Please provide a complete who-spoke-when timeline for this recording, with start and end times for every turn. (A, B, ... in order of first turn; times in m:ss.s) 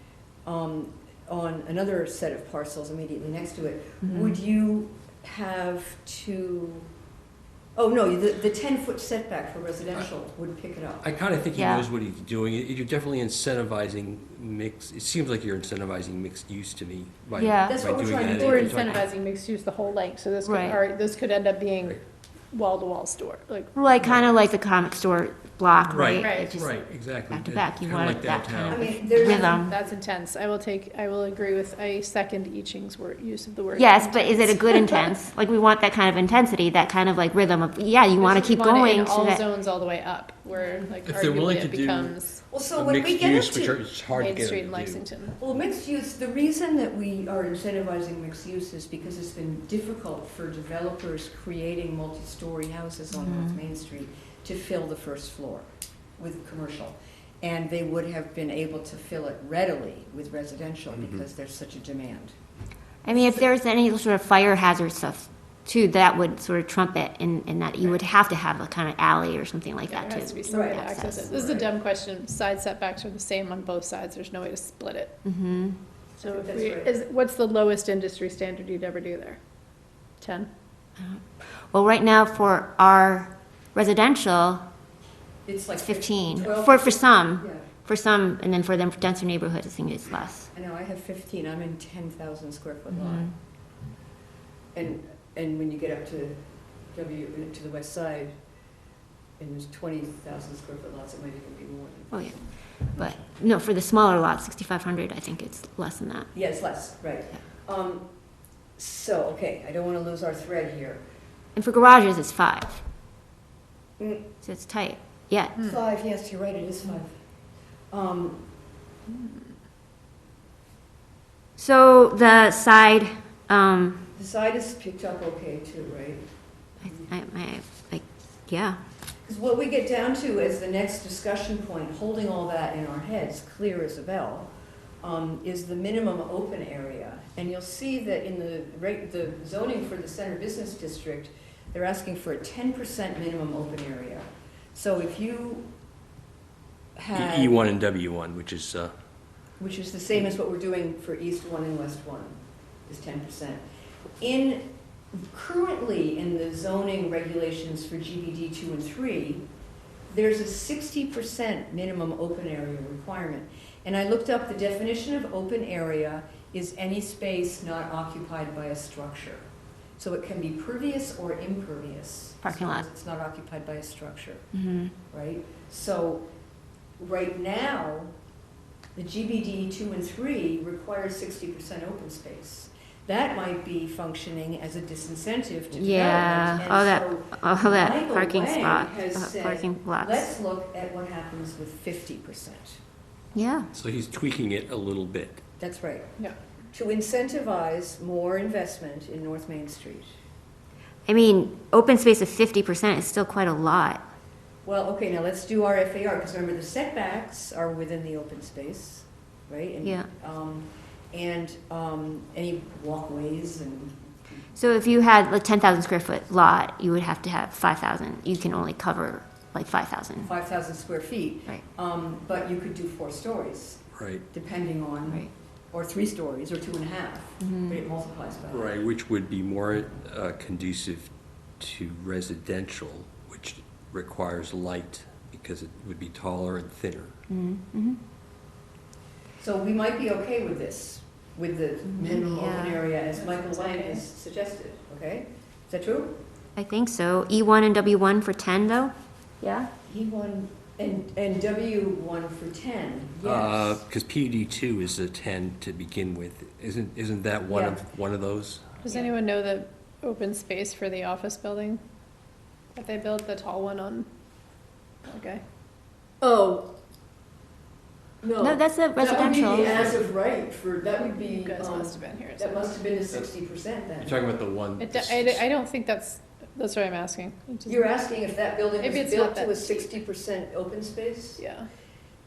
0:00.4-0:06.9 A
0:04.0-0:04.3 B
0:07.8-0:11.0 A
0:11.0-0:19.0 C
0:11.6-0:11.9 B
0:17.4-0:17.8 B
0:17.7-0:18.9 A
0:18.2-0:22.0 D
0:20.4-0:20.8 B
0:22.5-0:23.8 D
0:23.8-0:29.7 B
0:25.9-0:28.9 C
0:26.1-0:26.5 D
0:28.7-0:29.7 A
0:29.1-0:35.1 D
0:33.8-0:39.4 B
0:38.2-0:42.4 D
0:41.1-0:42.2 C
0:42.5-0:43.8 A
0:42.8-0:45.0 C
0:44.1-0:45.4 D
0:45.4-1:02.3 A
0:53.1-0:53.6 B
1:00.9-1:01.2 C
1:03.0-1:11.3 B
1:03.1-1:03.4 A
1:09.9-1:15.2 D
1:10.5-1:11.7 A
1:15.2-1:15.8 B
1:16.2-1:19.4 D
1:16.2-1:16.9 A
1:20.2-1:20.5 D
1:21.0-1:24.7 B
1:25.4-1:27.7 A
1:25.8-1:30.5 B
1:30.5-1:33.3 A
1:32.9-1:33.3 B
1:34.7-1:36.4 A
1:36.9-1:38.3 A
1:39.4-1:43.1 A
1:42.1-1:42.4 B
1:42.9-1:46.3 B
1:46.3-1:48.1 A
1:48.8-1:51.0 A
1:51.6-1:52.8 B
1:54.0-1:54.3 A
1:54.4-1:55.6 B
1:55.6-1:57.1 A
1:57.9-1:58.4 A
1:59.1-1:59.4 D
2:01.6-2:04.1 B
2:04.2-2:06.2 A
2:06.8-2:08.8 B
2:09.2-2:25.7 A
2:27.0-2:27.7 A
2:27.1-2:28.9 C
2:29.6-2:33.6 A
2:34.2-2:39.5 A
2:40.1-2:49.4 A
2:50.0-2:54.4 A
2:52.4-2:52.8 B
2:54.5-2:54.9 B
2:55.1-2:56.2 A
2:57.0-2:58.1 A
2:59.0-3:12.8 A
3:05.7-3:10.3 B
3:13.3-3:13.7 B
3:13.7-3:15.4 C
3:15.6-3:16.2 A
3:16.7-3:20.1 A
3:21.1-3:24.0 B
3:24.6-3:34.1 A
3:29.8-3:30.1 B
3:34.6-3:40.3 B
3:40.2-3:48.8 A
3:43.9-3:44.2 C
3:47.4-3:47.8 B
3:48.5-3:57.1 C
3:57.3-3:58.0 B
3:59.4-4:06.2 A
4:01.9-4:02.8 B
4:03.1-4:04.0 D
4:06.6-4:09.7 B
4:09.8-4:13.8 A
4:13.2-4:18.6 C
4:17.5-4:17.8 A
4:18.8-4:21.8 D
4:22.8-4:24.1 D
4:25.0-4:25.4 D
4:26.2-4:26.7 A
4:28.2-4:34.2 A
4:28.4-4:30.0 B
4:31.0-4:32.8 D
4:34.0-4:35.4 C
4:34.8-4:37.9 D
4:37.7-4:41.4 A
4:38.8-4:40.0 D
4:41.4-4:41.7 D